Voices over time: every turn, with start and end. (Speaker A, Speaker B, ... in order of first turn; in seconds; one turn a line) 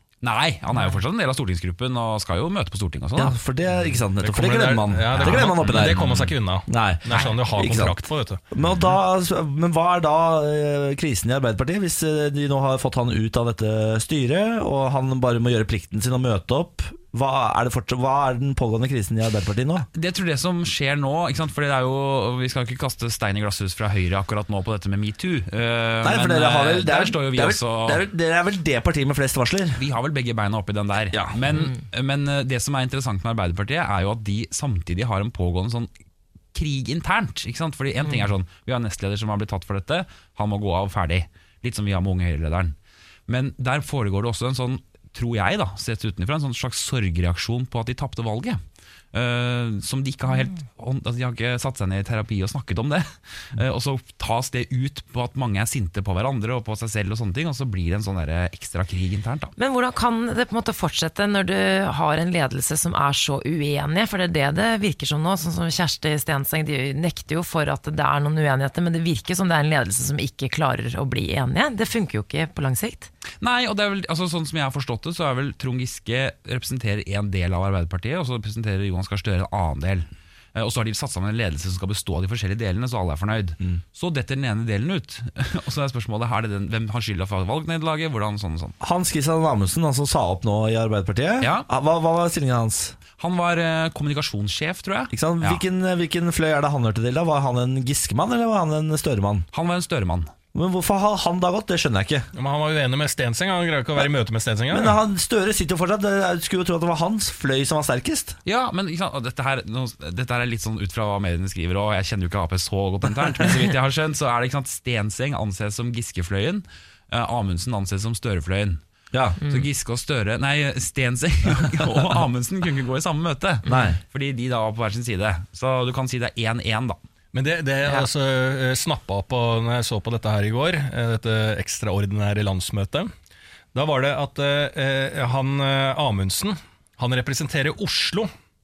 Speaker A: 0.2-3.4
Speaker B: 3.1-6.1
Speaker C: 4.2-8.4
Speaker A: 5.2-6.3
Speaker B: 6.7-19.9
Speaker A: 19.9-28.0
Speaker B: 26.0-29.8
Speaker A: 29.8-35.9
Speaker B: 31.1-31.4
Speaker A: 36.5-42.8
Speaker A: 43.3-48.6
Speaker A: 49.1-59.5
Speaker D: 59.6-73.1
Speaker A: 73.4-88.8
Speaker B: 88.8-93.0
Speaker A: 91.4-91.7
Speaker A: 93.2-95.6
Speaker B: 95.1-99.5
Speaker A: 99.5-100.3
Speaker B: 100.5-102.3
Speaker C: 102.3-105.0
Speaker B: 104.7-108.4
Speaker A: 108.5-118.8
Speaker B: 119.1-119.4
Speaker A: 119.4-127.0
Speaker B: 123.7-124.0
Speaker C: 127.3-133.1
Speaker C: 133.7-138.3